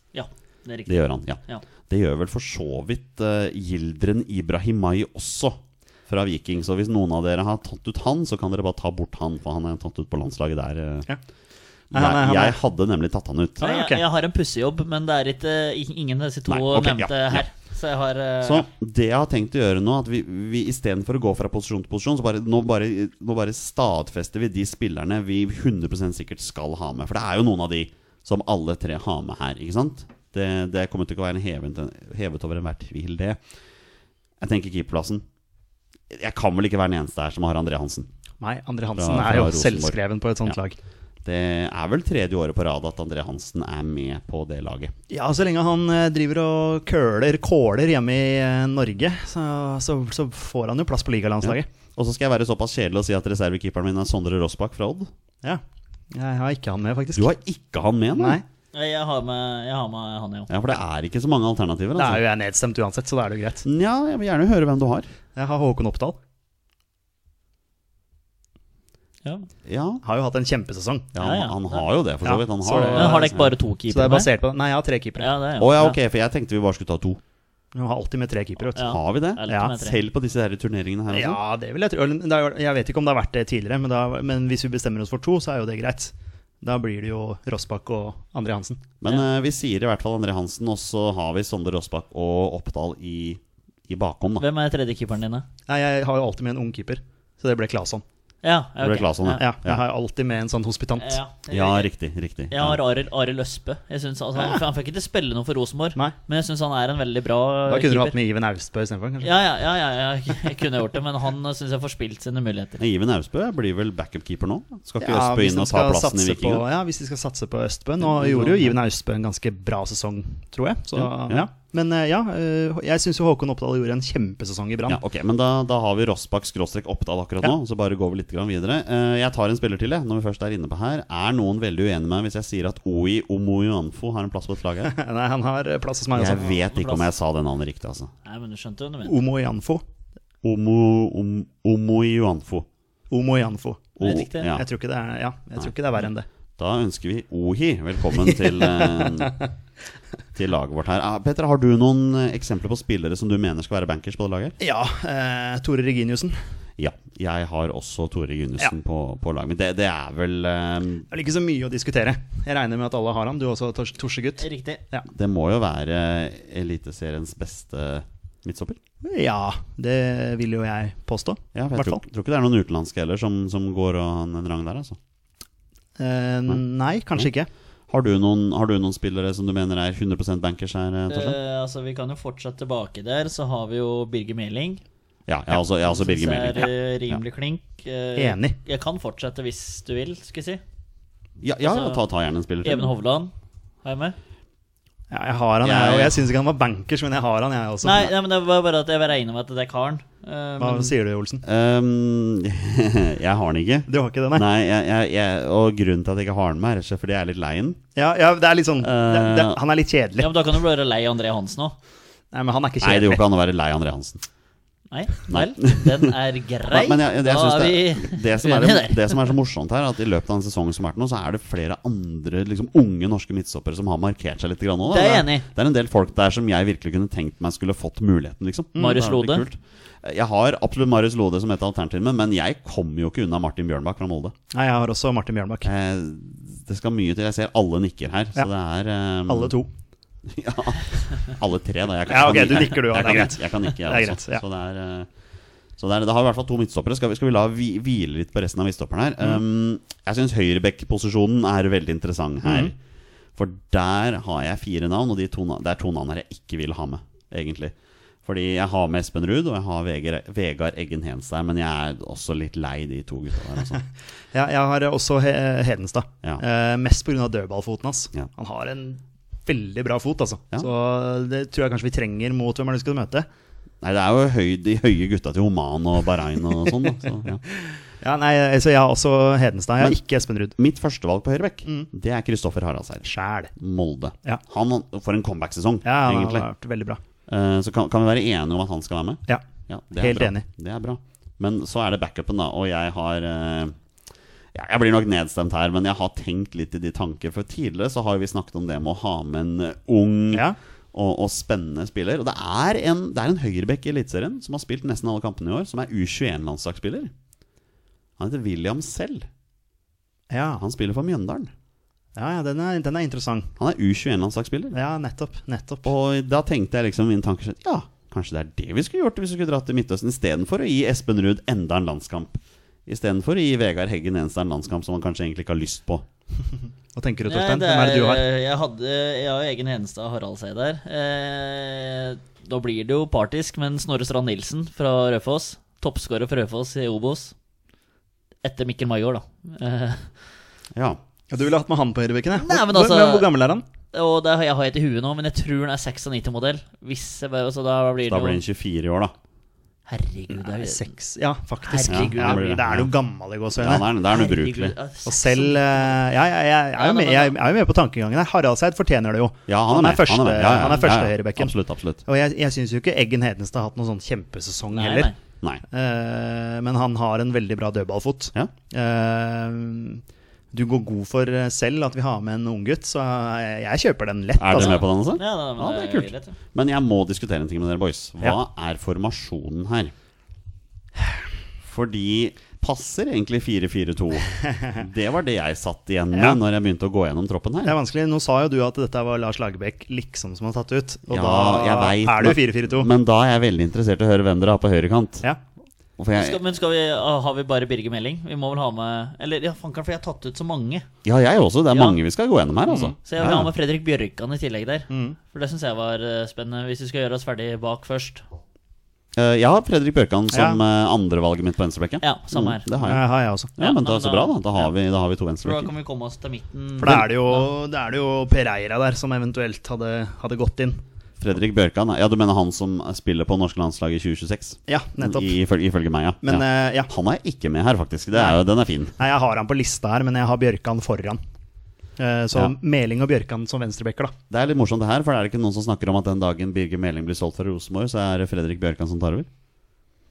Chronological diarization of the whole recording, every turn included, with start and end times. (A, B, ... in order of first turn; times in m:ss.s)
0:00.1-0:01.6 A
0:00.9-0:11.1 B
0:11.9-0:12.6 C
0:11.9-0:13.6 B
0:13.6-0:14.0 C
0:13.6-0:18.6 A
0:16.5-0:17.4 B
0:18.4-0:33.4 B
0:34.4-0:35.2 B
0:36.1-0:38.1 B
0:38.4-0:40.8 C
0:39.0-0:40.6 B
0:41.2-0:44.9 B
0:45.1-0:51.7 C
0:51.4-0:55.1 B
0:56.1-0:57.3 C
0:57.2-0:58.4 B
0:58.2-0:58.4 C
0:58.7-1:00.5 A
1:00.5-1:02.2 B
1:02.0-1:03.7 C
1:03.6-1:05.1 B
1:05.4-1:06.2 C
1:09.6-1:10.0 B
1:10.0-1:11.1 C
1:11.1-1:13.5 B
1:11.2-1:11.9 A
1:12.2-1:13.3 C
1:12.9-1:14.3 A
1:13.9-1:15.3 C
1:15.2-1:16.0 A
1:15.6-1:17.2 B
1:17.7-1:18.9 C
1:18.8-1:20.0 A
1:18.8-1:21.4 B
1:21.1-1:28.9 C
1:29.0-1:34.5 B
1:34.4-1:35.4 A
1:35.7-1:38.0 C
1:38.4-1:39.4 A
1:38.8-1:39.8 B
1:39.3-1:41.2 C
1:41.0-1:41.9 A
1:41.5-1:42.8 B
1:42.5-1:48.2 A
1:47.7-1:49.3 C
1:49.2-1:52.8 A
1:52.8-1:56.6 B
1:55.0-2:05.0 C
1:58.0-1:58.8 B
2:00.9-2:01.5 B
2:04.9-2:14.9 B
2:14.8-2:16.6 C
2:16.1-2:18.1 B
2:16.7-2:17.1 A
2:18.2-2:19.2 A
2:19.1-2:19.8 C
2:20.4-2:22.7 B
2:23.1-2:26.3 C
2:24.0-2:24.5 A
2:24.0-2:24.6 B
2:26.6-2:29.4 B
2:28.3-2:29.5 C
2:30.4-2:34.6 B
2:34.6-2:36.4 C
2:36.8-2:41.1 B
2:41.1-2:45.1 C
2:44.4-2:44.8 A
2:45.1-2:48.8 B
2:49.0-2:52.0 C
2:51.6-2:55.0 B
2:56.0-2:57.5 C
2:57.9-3:01.4 B
3:01.1-3:04.8 A
3:05.3-3:07.2 B
3:05.8-3:10.6 A
3:08.2-3:08.6 C
3:11.4-3:12.9 B
3:11.6-3:12.0 A
3:12.6-3:13.3 A
3:13.8-3:14.2 A
3:15.1-3:18.1 C
3:15.6-3:16.2 B
3:17.8-3:20.9 A
3:20.6-3:21.4 C
3:21.4-3:27.8 B
3:23.9-3:24.5 C
3:28.0-3:30.3 C
3:28.8-3:29.6 B
3:30.2-3:31.8 A
3:32.3-3:33.2 C
3:32.8-3:34.2 B
3:34.9-3:39.3 A
3:35.3-3:36.1 B
3:36.7-3:54.3 B
3:44.9-3:45.5 A
3:48.8-3:49.0 C
3:48.8-3:49.4 A
3:54.5-3:55.7 C
3:55.6-3:59.5 B
3:59.3-3:59.7 C
4:00.2-4:05.1 B
4:02.1-4:04.4 C
4:05.8-4:12.8 B
4:12.4-4:12.7 C
4:13.4-4:17.7 B
4:18.3-4:23.8 B
4:24.3-4:33.3 C
4:33.8-4:37.4 B
4:37.5-4:40.6 C
4:40.6-4:46.5 B
4:43.0-4:43.5 C
4:45.8-4:47.0 C
4:47.3-4:53.8 B
4:50.0-4:50.5 C
4:54.5-5:07.1 B
5:00.3-5:00.6 C
5:08.2-5:09.3 B
5:10.3-5:10.6 C
5:10.6-5:11.5 B
5:12.2-5:13.5 C
5:13.6-5:14.8 B
5:14.7-5:15.9 C
5:15.8-5:26.1 B
5:27.0-5:28.3 C
5:27.3-5:37.3 A
5:38.4-5:40.1 A
5:40.7-5:41.0 B
5:41.3-5:43.6 C
5:42.4-5:43.3 A
5:43.9-5:48.4 A
5:48.0-5:49.1 B
5:49.9-5:50.9 A
5:50.4-5:53.9 C
5:51.6-5:52.5 A
5:51.9-5:52.9 B
5:53.6-5:54.8 B
5:54.1-5:56.0 A
5:55.1-6:01.5 C
5:56.8-5:57.4 A
5:59.5-6:02.0 B
6:02.1-6:05.1 C
6:04.7-6:05.2 A
6:05.7-6:14.8 C
6:14.4-6:19.9 B
6:14.6-6:16.4 A
6:21.6-6:27.8 B
6:26.1-6:26.4 C
6:27.6-6:32.9 C
6:31.1-6:35.3 B
6:36.0-6:36.4 B
6:36.2-6:40.9 A
6:41.0-6:43.5 B
6:41.7-6:42.0 A
6:42.7-6:43.0 C
6:43.0-6:48.2 A
6:44.9-6:45.2 C
6:49.2-6:53.0 B
6:50.3-6:50.6 C
6:52.0-6:52.7 A
6:52.8-6:53.5 C
6:53.6-6:55.7 B
6:53.6-6:54.6 A
6:55.4-6:57.5 A
6:56.8-7:00.8 C
7:01.2-7:09.0 B
7:04.7-7:05.4 C
7:06.2-7:06.9 C
7:08.1-7:08.4 C
7:09.0-7:11.2 C
7:12.0-7:14.1 C
7:14.3-7:19.3 B